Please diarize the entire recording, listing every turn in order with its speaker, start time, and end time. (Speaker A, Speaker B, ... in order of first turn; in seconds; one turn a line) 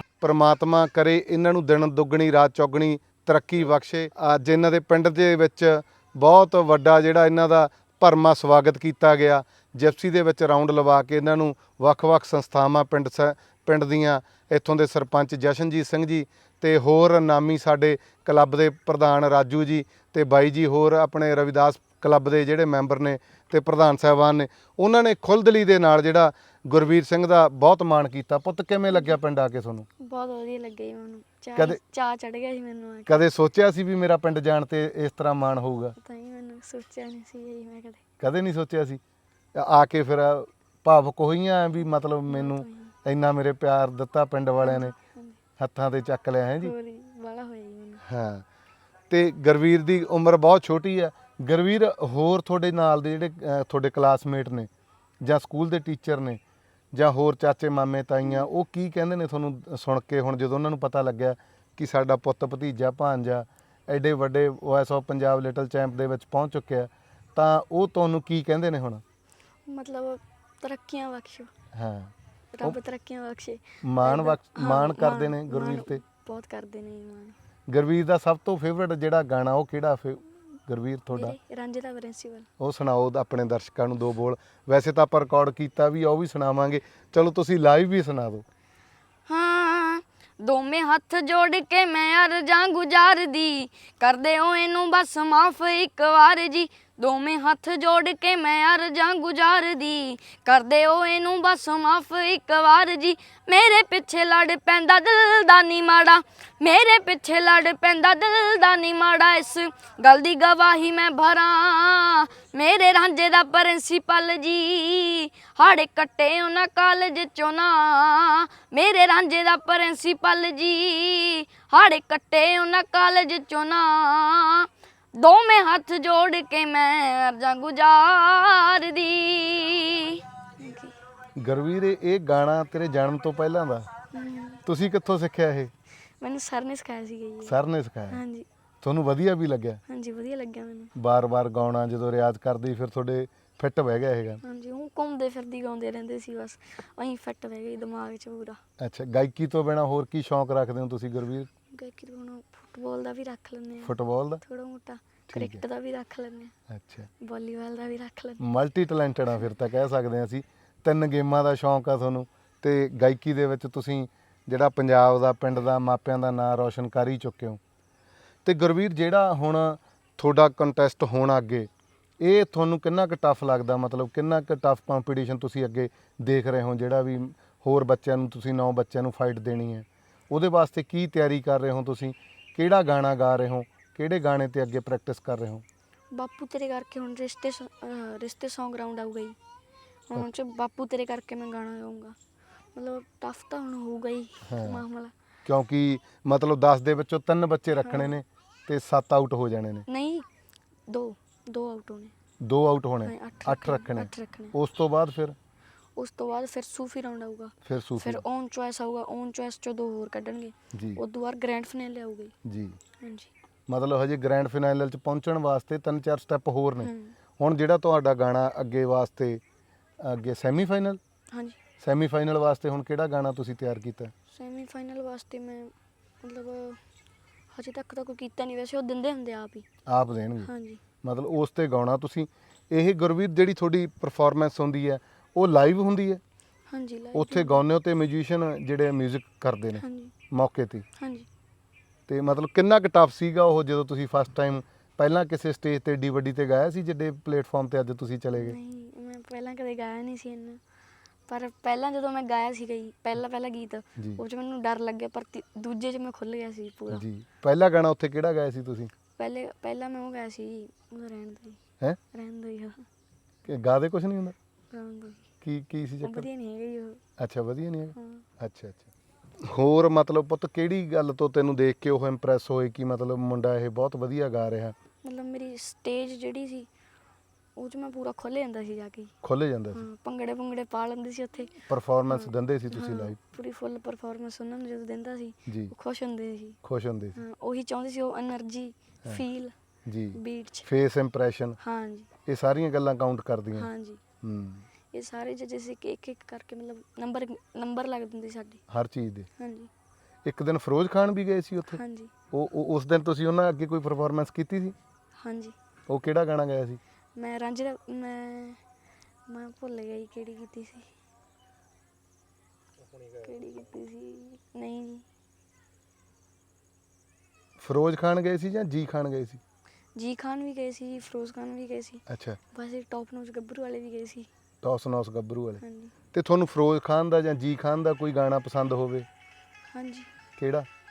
Speaker A: 0.2-29.9
Speaker B: 28.9-29.1
Speaker B: 30.0-33.3
Speaker A: 33.1-36.0
Speaker B: 36.0-38.0
Speaker A: 38.2-39.0
Speaker A: 39.5-44.9
Speaker B: 42.3-42.9
Speaker B: 44.6-45.4
Speaker A: 45.6-46.7
Speaker B: 46.6-48.0
Speaker A: 48.0-48.5
Speaker A: 49.1-54.7
Speaker A: 55.2-56.4
Speaker A: 56.9-69.0
Speaker B: 69.7-71.5
Speaker A: 71.7-72.8
Speaker B: 72.5-77.3
Speaker A: 73.8-76.0
Speaker A: 77.7-81.4
Speaker B: 81.1-82.5
Speaker A: 82.6-88.5
Speaker B: 89.3-130.9
Speaker A: 131.4-133.9
Speaker B: 134.1-134.6
Speaker A: 134.7-135.7
Speaker B: 136.2-137.6
Speaker A: 137.4-138.2
Speaker B: 138.1-138.5
Speaker A: 138.8-139.8
Speaker B: 139.9-140.9
Speaker A: 141.0-144.4
Speaker B: 144.4-148.6
Speaker A: 148.8-151.5
Speaker B: 151.7-156.5
Speaker A: 153.8-154.4
Speaker A: 155.3-155.6
Speaker A: 156.7-157.1
Speaker B: 157.2-158.4
Speaker A: 158.4-167.6
Speaker A: 168.4-171.7
Speaker A: 172.2-185.6
Speaker B: 186.1-189.4
Speaker B: 190.1-192.2
Speaker B: 192.8-195.1
Speaker A: 194.5-194.8
Speaker A: 195.4-199.9
Speaker B: 197.8-198.1
Speaker B: 199.9-200.2
Speaker B: 200.9-202.1
Speaker A: 202.4-205.4
Speaker B: 203.0-204.5
Speaker B: 206.0-212.3
Speaker A: 207.6-208.2
Speaker A: 210.7-211.0
Speaker A: 212.4-212.8
Speaker B: 213.0-213.3
Speaker A: 213.7-219.4
Speaker B: 216.8-217.1
Speaker A: 220.0-221.0
Speaker B: 221.3-221.6
Speaker A: 221.8-224.1
Speaker B: 224.3-226.8
Speaker B: 227.5-229.7
Speaker A: 229.9-230.5
Speaker B: 230.4-230.8
Speaker A: 231.0-236.2
Speaker B: 236.7-237.6
Speaker A: 237.1-240.9
Speaker B: 239.8-240.1
Speaker B: 241.0-241.3
Speaker A: 242.1-248.6
Speaker B: 248.3-250.6
Speaker B: 251.3-257.0
Speaker A: 254.0-254.2
Speaker A: 256.9-258.9
Speaker B: 259.1-261.6
Speaker B: 262.1-262.8
Speaker A: 263.4-264.4
Speaker B: 264.7-265.2
Speaker A: 265.4-266.3
Speaker B: 266.0-267.0
Speaker A: 267.2-268.9
Speaker B: 267.9-268.2
Speaker A: 269.4-274.8
Speaker B: 275.0-276.7
Speaker B: 277.6-279.1
Speaker A: 279.2-279.9
Speaker B: 279.7-286.6
Speaker A: 281.7-283.2
Speaker A: 285.5-285.7
Speaker A: 286.6-287.2
Speaker B: 287.1-289.5
Speaker A: 289.9-291.6
Speaker B: 290.1-290.7
Speaker B: 291.6-292.1
Speaker A: 292.2-293.7
Speaker B: 293.6-294.0
Speaker A: 294.2-294.6
Speaker B: 294.9-298.6
Speaker A: 298.7-299.3
Speaker B: 299.4-299.7
Speaker A: 300.2-301.8
Speaker B: 301.7-302.1
Speaker A: 302.3-304.8
Speaker B: 305.2-305.5
Speaker A: 305.9-306.8
Speaker B: 307.1-308.6
Speaker B: 309.3-310.9
Speaker B: 313.2-315.0
Speaker A: 317.6-319.4
Speaker B: 320.0-322.0
Speaker A: 322.1-322.4
Speaker B: 322.5-324.3
Speaker A: 324.6-329.1
Speaker B: 325.6-325.9
Speaker B: 329.7-330.1
Speaker A: 330.4-330.7